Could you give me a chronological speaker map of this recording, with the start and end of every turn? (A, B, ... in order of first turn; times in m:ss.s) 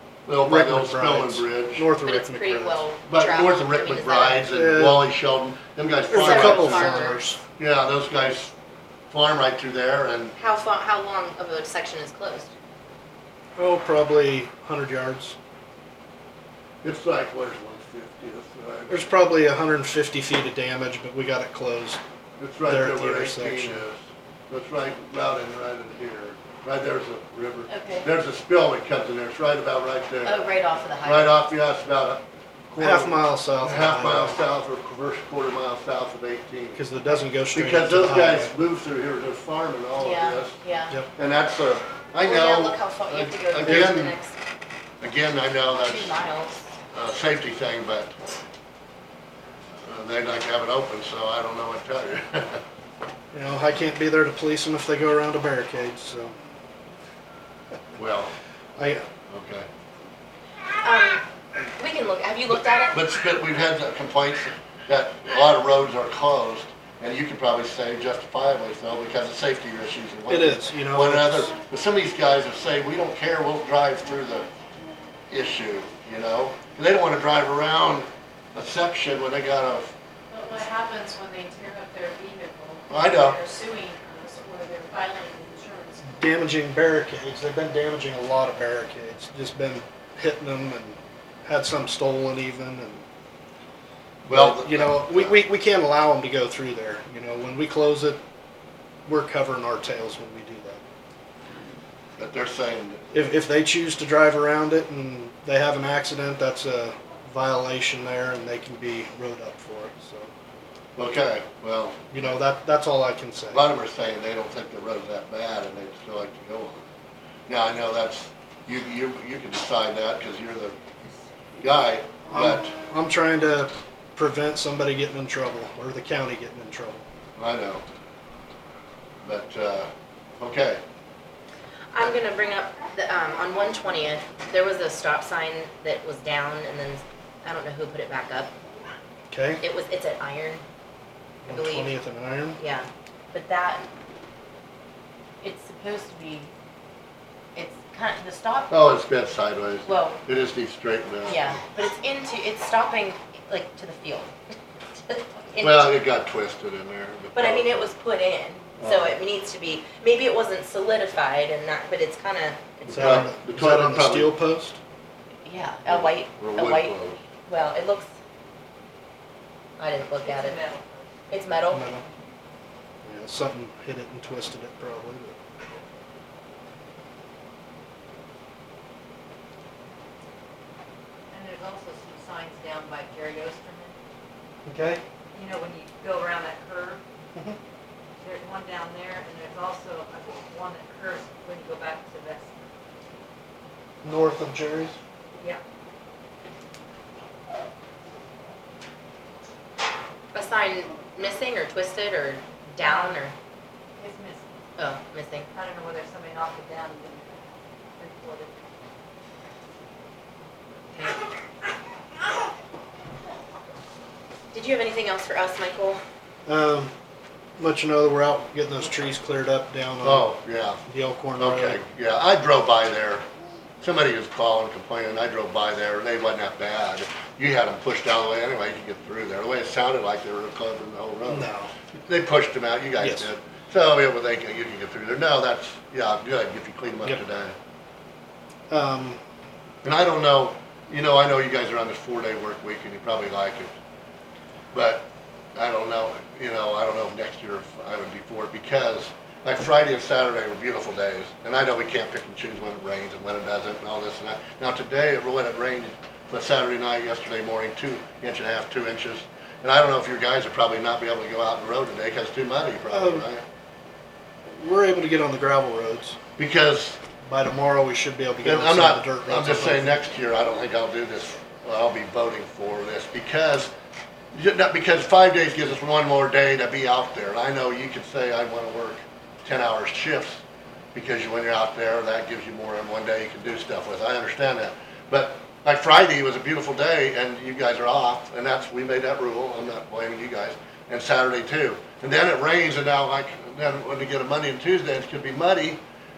0:00.2-0:01.9 A
0:00.4-0:02.8 B
0:02.0-0:04.5 C
0:03.1-0:07.0 A
0:04.5-0:05.1 B
0:06.1-0:07.4 B
0:06.1-0:07.2 C
0:07.6-0:08.5 A
0:09.1-0:10.4 A
0:10.4-0:12.5 C
0:13.6-0:15.4 B
0:16.8-0:19.1 A
0:18.9-0:22.0 B
0:22.4-0:30.5 A
0:22.6-0:23.8 B
0:27.7-0:28.1 C
0:30.2-0:31.4 C
0:31.0-0:36.8 A
0:32.8-0:34.4 B
0:36.8-0:38.5 B
0:37.5-0:40.6 A
0:40.0-0:41.0 C
0:41.2-0:44.2 A
0:42.2-0:44.4 C
0:43.6-0:44.0 B
0:45.0-0:46.1 A
0:45.7-0:46.7 C
0:46.9-0:48.1 A
0:49.8-0:52.6 A
0:53.3-0:56.4 B
0:57.9-0:58.3 A
0:58.8-0:59.0 B
0:59.3-0:59.7 A
1:00.8-1:01.2 C
1:01.8-1:03.0 C
1:02.5-1:14.5 A
1:10.3-1:11.5 B
1:15.3-1:19.9 A
1:20.3-1:26.0 D
1:22.9-1:23.4 A
1:26.0-1:33.0 B
1:34.2-1:35.4 A
1:34.3-1:38.2 B
1:39.0-1:40.8 B
1:42.2-1:43.1 A
1:43.1-1:50.3 B
1:51.0-1:52.4 A
1:52.1-1:53.6 B
1:53.5-1:56.9 A
1:57.5-2:00.8 A
2:01.6-2:02.7 A
2:02.3-2:07.0 B
2:07.4-2:07.8 A
2:09.2-2:10.8 A
2:11.9-2:18.5 C
2:19.3-2:19.6 B
2:19.6-2:20.6 C
2:21.4-2:22.6 B
2:21.5-2:21.9 C
2:22.6-2:23.9 C
2:25.4-2:26.5 C
2:27.5-2:28.7 C
2:28.7-2:31.6 A
2:29.8-2:30.2 C
2:31.2-2:34.3 C
2:35.1-2:36.0 C
2:35.6-2:37.9 A
2:37.3-2:43.3 C
2:38.8-2:39.2 A
2:42.9-2:44.4 A
2:42.9-2:44.8 B
2:45.4-2:48.1 C
2:45.8-2:47.2 A
2:49.8-2:50.6 C
2:50.1-2:51.1 E
2:51.3-2:52.0 C
2:51.7-2:52.0 B
2:53.0-2:55.4 B
3:01.3-3:03.9 E
3:04.6-3:05.0 B
3:05.3-3:07.0 E
3:08.2-3:13.2 E
3:14.0-3:15.0 B
3:15.3-3:15.6 E
3:20.3-3:23.3 C
3:22.8-3:23.2 E
3:24.0-3:24.5 E
3:24.8-3:25.5 C
3:25.5-3:28.6 E
3:30.9-3:31.2 E
3:34.5-3:36.0 C
3:36.4-3:36.9 B
3:37.6-3:40.3 B
3:40.0-3:40.8 A
3:40.9-3:41.8 B
3:41.4-3:43.2 A
3:43.8-3:57.5 A
3:51.2-3:51.7 B
3:53.0-3:53.3 B
3:58.7-3:59.2 B
3:59.8-4:03.7 A
4:04.7-4:23.4 A
4:22.9-4:23.3 B
4:24.5-4:26.2 B
4:26.4-4:27.0 A
4:27.2-4:30.0 B
4:28.4-4:33.7 A
4:34.3-4:40.4 A
4:40.9-4:55.8 A